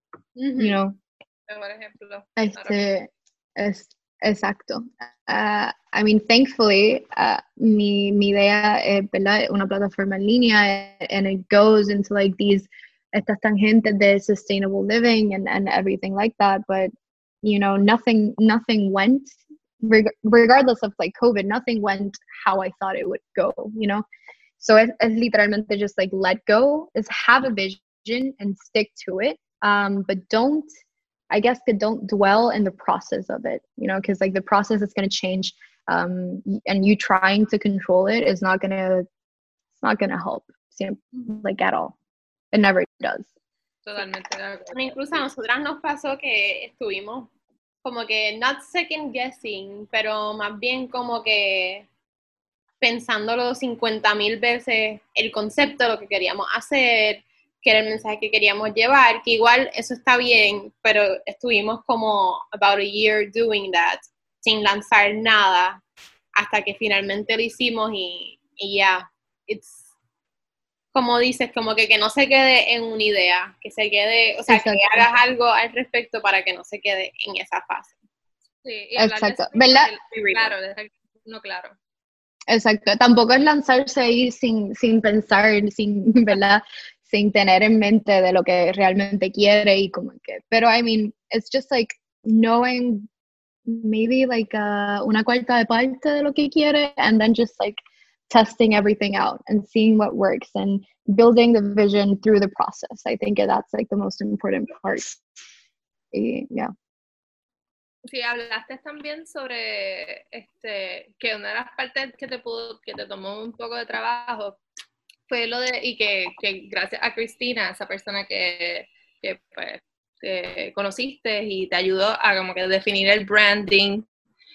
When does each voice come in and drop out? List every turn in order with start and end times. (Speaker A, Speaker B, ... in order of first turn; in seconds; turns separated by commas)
Speaker A: 0.4-0.8, Speaker B: 0.6-1.0, Speaker C: 1.5-2.8, Speaker B: 2.4-16.9, Speaker B: 17.4-24.0, Speaker B: 24.6-30.7, Speaker B: 31.3-39.0, Speaker B: 39.8-41.9, Speaker B: 42.5-43.3, Speaker C: 43.9-45.2, Speaker A: 44.7-47.3, Speaker A: 47.8-51.9, Speaker A: 52.8-65.8, Speaker A: 66.3-69.9, Speaker A: 70.9-78.0, Speaker B: 74.5-75.1, Speaker C: 78.6-81.7, Speaker B: 79.0-79.9, Speaker A: 80.1-80.5, Speaker B: 82.5-93.1, Speaker B: 93.7-97.8, Speaker B: 98.3-105.2, Speaker B: 106.1-106.7, Speaker C: 108.1-114.6, Speaker C: 115.3-124.0